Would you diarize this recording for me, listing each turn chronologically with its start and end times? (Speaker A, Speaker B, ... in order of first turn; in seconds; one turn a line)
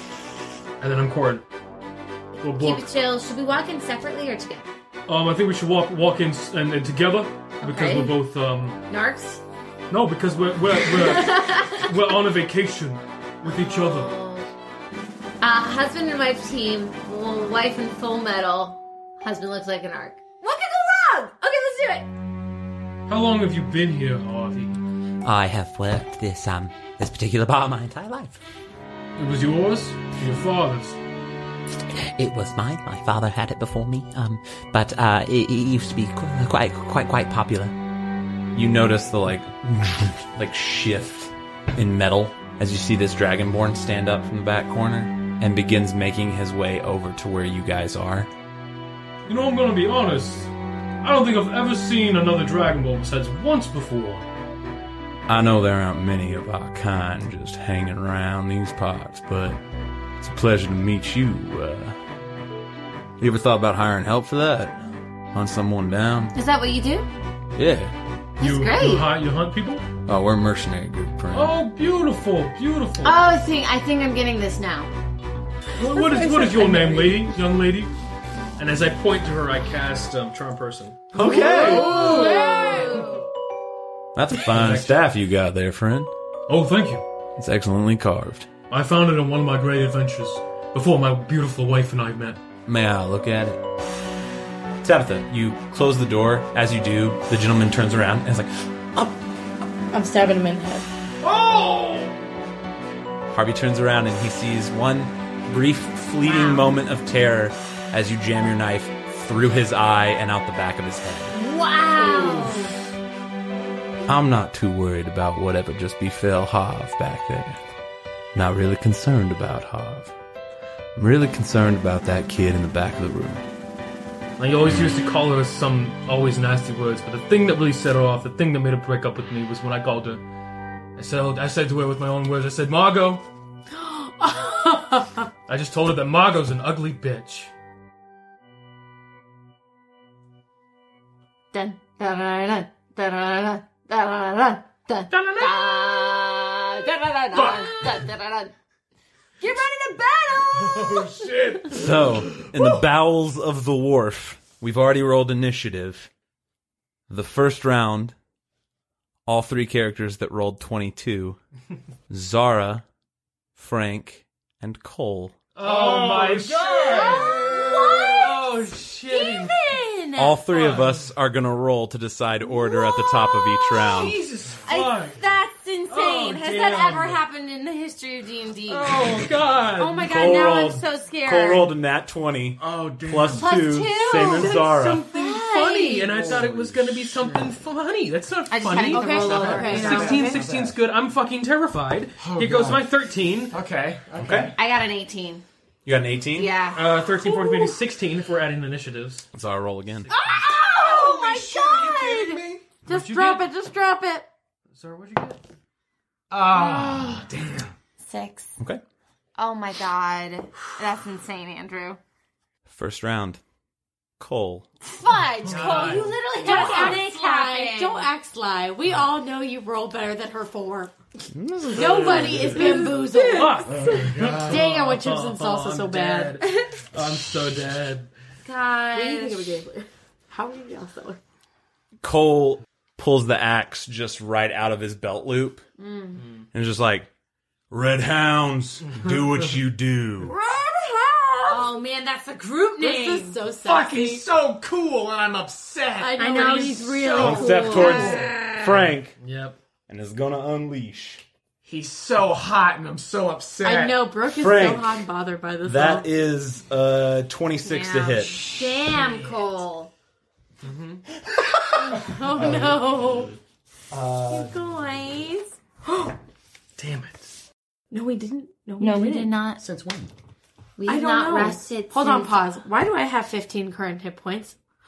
Speaker A: 0.8-1.4
Speaker A: 2.4-2.9
Speaker B: 2.5-4.7
Speaker A: 5.1-8.8
Speaker B: 7.6-8.1
Speaker B: 8.9-9.4
Speaker A: 9.9-14.2
Speaker B: 10.8-11.9
Speaker B: 13.4-14.5
Speaker B: 15.4-22.1
Speaker A: 23.1-24.8
Speaker C: 25.2-28.4
Speaker A: 29.2-31.0
Speaker C: 32.1-37.7
Speaker D: 38.5-48.3
Speaker A: 49.3-54.3
Speaker D: 55.3-59.6
Speaker D: 60.2-62.0
Speaker D: 63.2-66.3
Speaker B: 66.3-67.1
Speaker D: 67.6-67.9
Speaker B: 68.4-69.1
Speaker A: 68.4-69.8
Speaker D: 70.1-71.6
Speaker A: 71.3-73.2
Speaker B: 73.0-74.9
Speaker A: 75.7-77.9
Speaker E: 75.8-77.1
Speaker A: 78.6-81.1
Speaker D: 81.1-82.1
Speaker E: 81.2-83.1
Speaker B: 81.6-83.2
Speaker F: 81.6-82.4
Speaker A: 81.9-82.3
Speaker D: 84.2-86.1
Speaker A: 84.4-85.0
Speaker A: 86.5-87.0
Speaker D: 87.4-88.5
Speaker A: 88.7-92.4
Speaker D: 92.7-93.6
Speaker D: 94.8-99.2
Speaker E: 99.9-100.9
Speaker F: 101.2-102.1
Speaker D: 103.3-111.3
Speaker B: 106.2-106.7
Speaker B: 111.3-112.8
Speaker F: 112.0-112.5
Speaker D: 114.1-117.6
Speaker D: 118.3-120.1
Speaker D: 121.0-123.4
Speaker A: 124.4-130.2
Speaker A: 130.9-133.2
Speaker E: 133.7-135.3
Speaker A: 135.5-137.5
Speaker B: 141.5-148.5
Speaker A: 145.1-146.1
Speaker A: 147.3-147.9
Speaker B: 149.4-151.2
Speaker F: 150.5-152.7
Speaker D: 151.7-156.1
Speaker D: 157.1-158.1
Speaker D: 159.2-161.4
Speaker D: 162.1-162.8
Speaker D: 163.6-165.4
Speaker A: 165.5-169.7
Speaker F: 165.6-168.2
Speaker B: 166.8-170.4
Speaker D: 170.2-174.2
Speaker A: 170.5-171.1
Speaker B: 172.4-174.0
Speaker A: 173.8-175.2
Speaker B: 174.7-179.2
Speaker A: 175.9-177.2
Speaker A: 178.7-180.3
Speaker B: 179.8-181.7
Speaker D: 180.0-185.1
Speaker F: 182.6-183.5
Speaker B: 183.4-186.2
Speaker A: 184.1-193.6
Speaker F: 185.9-187.6
Speaker B: 188.5-190.2
Speaker E: 188.9-190.4
Speaker F: 189.1-190.8
Speaker F: 192.2-192.9
Speaker F: 193.5-194.6
Speaker D: 194.2-194.5
Speaker B: 194.5-195.4
Speaker D: 195.8-196.5
Speaker B: 196.3-196.9
Speaker A: 196.7-199.3
Speaker D: 199.3-200.1
Speaker A: 200.1-200.5
Speaker F: 200.3-202.6
Speaker B: 200.4-202.4
Speaker E: 202.8-204.2
Speaker A: 202.9-203.5
Speaker A: 204.7-205.4
Speaker F: 206.3-207.7
Speaker B: 206.7-207.1
Speaker B: 208.0-208.5
Speaker B: 209.3-212.0
Speaker D: 212.7-213.4
Speaker D: 214.2-214.7
Speaker B: 214.8-218.1
Speaker A: 215.4-216.2
Speaker E: 216.4-220.9
Speaker D: 221.3-222.5
Speaker E: 221.7-226.4
Speaker A: 222.3-228.1
Speaker F: 223.6-224.7
Speaker B: 226.4-226.8
Speaker B: 228.4-229.6
Speaker E: 228.9-231.2
Speaker D: 232.0-235.6
Speaker B: 235.8-236.2
Speaker A: 236.2-236.4
Speaker D: 236.5-237.1
Speaker D: 237.7-240.3
Speaker E: 240.2-241.7
Speaker B: 241.4-243.4
Speaker E: 242.8-244.3
Speaker F: 243.7-246.2
Speaker E: 246.0-247.8
Speaker B: 246.2-248.8
Speaker F: 247.0-248.4
Speaker D: 247.2-249.2
Speaker A: 249.2-249.6
Speaker D: 249.9-251.2
Speaker F: 251.6-254.1
Speaker E: 253.6-256.1
Speaker D: 254.2-255.0
Speaker D: 255.6-258.4
Speaker B: 257.6-259.9
Speaker A: 258.9-259.4
Speaker A: 260.6-261.0
Speaker E: 261.8-263.3
Speaker F: 262.0-262.8
Speaker D: 263.9-264.6
Speaker E: 264.3-266.1
Speaker A: 266.8-267.2
Speaker E: 267.9-269.4
Speaker B: 268.8-269.6
Speaker F: 269.6-270.1
Speaker B: 270.8-272.5
Speaker E: 270.9-274.6